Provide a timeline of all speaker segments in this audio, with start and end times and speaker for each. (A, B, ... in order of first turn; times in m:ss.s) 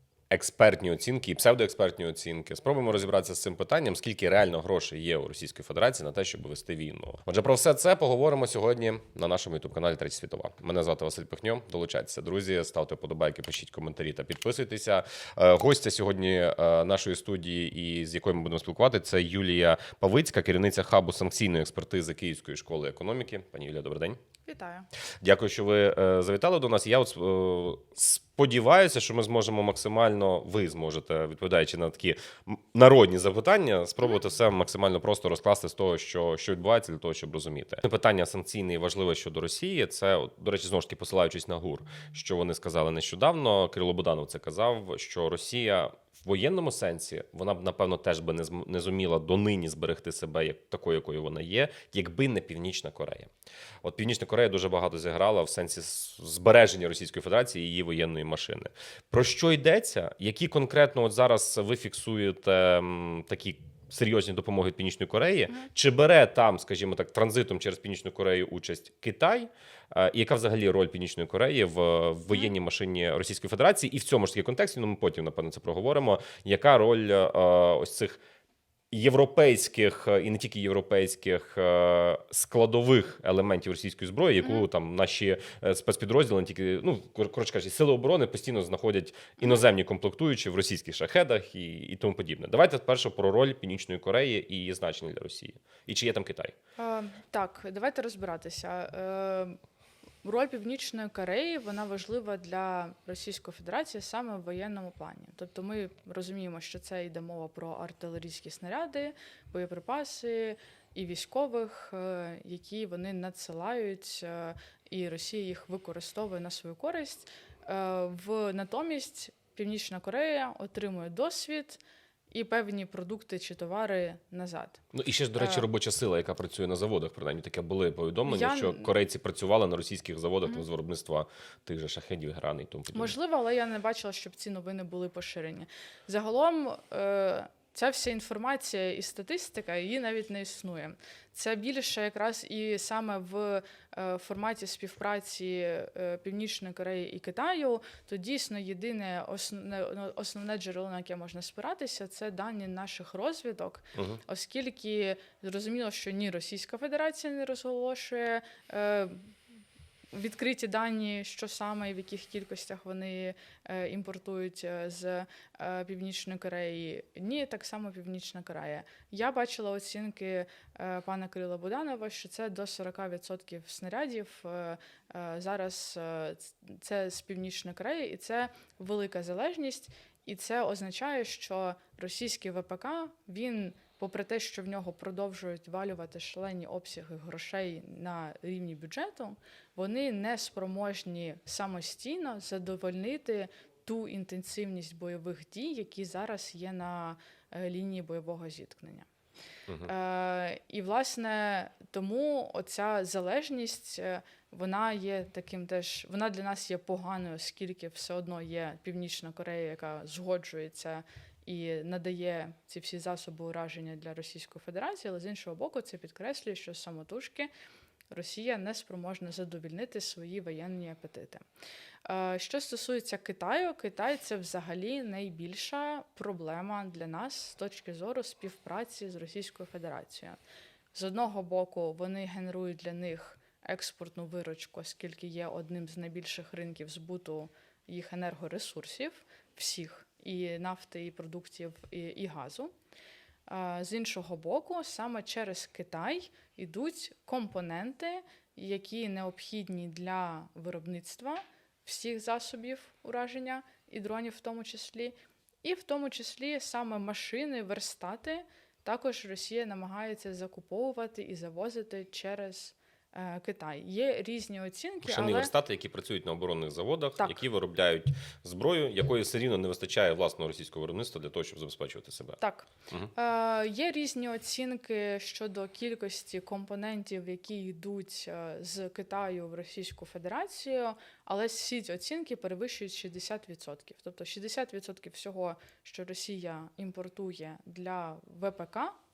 0:00.3-0:24.2 A
0:24.4-0:24.9 B
0:25.2-0:53.3 A
0:53.8-1:18.2 A
1:18.9-1:36.5 A
1:24.4-1:24.7 B
1:36.8-1:39.6 B
1:40.2-2:04.8 B
2:04.9-2:13.1 A
2:05.4-2:05.6 B
2:08.3-2:08.9 B
2:12.9-2:39.3 B
2:33.9-2:34.2 A
2:40.1-3:19.1 B
3:19.7-3:19.9 A
3:19.8-3:37.5 B
3:38.1-3:41.4 B
3:42.0-3:50.4 B
3:50.9-4:02.7 B
4:03.5-4:25.5 B
4:25.0-4:32.4 A
4:27.2-4:27.4 B
4:32.4-4:49.0 B